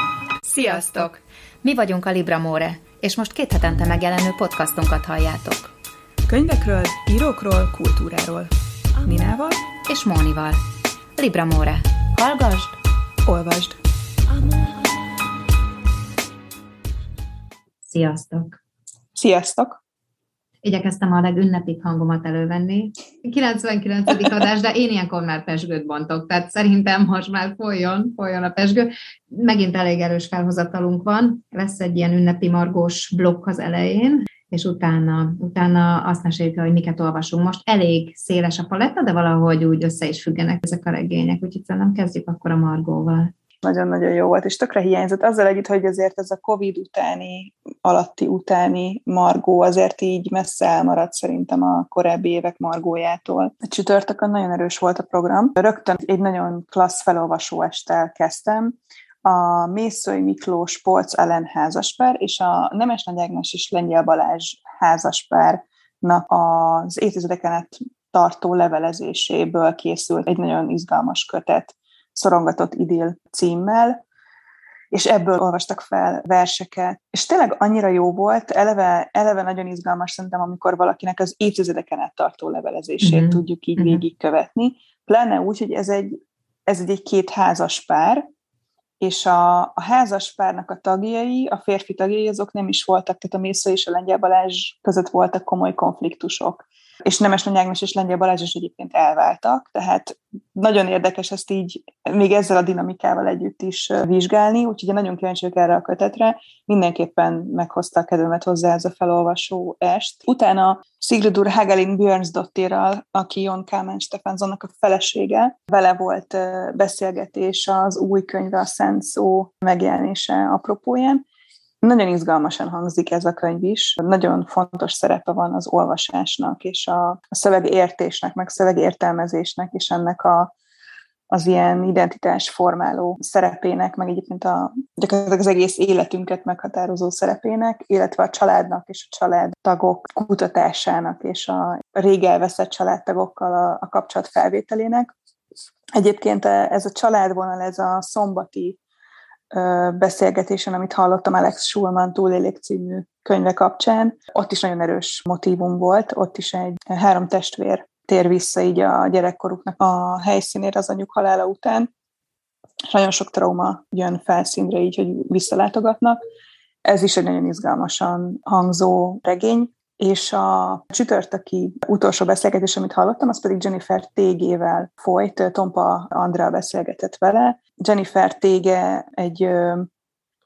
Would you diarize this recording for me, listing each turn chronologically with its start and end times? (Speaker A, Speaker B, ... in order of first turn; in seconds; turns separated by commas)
Speaker A: 0.5-5.7, Speaker B: 0.6-1.0, Speaker B: 6.3-9.6, Speaker A: 9.8-10.6, Speaker A: 11.2-12.8, Speaker B: 13.2-13.8, Speaker A: 17.8-18.6, Speaker B: 19.1-19.8, Speaker A: 20.6-43.3, Speaker B: 43.6-74.0, Speaker B: 74.9-86.1, Speaker A: 83.0-84.0, Speaker B: 86.7-88.2, Speaker B: 89.0-121.2, Speaker B: 121.8-130.5, Speaker B: 131.3-145.1, Speaker B: 145.9-148.8, Speaker B: 149.5-161.9, Speaker B: 162.9-166.2, Speaker B: 166.8-179.9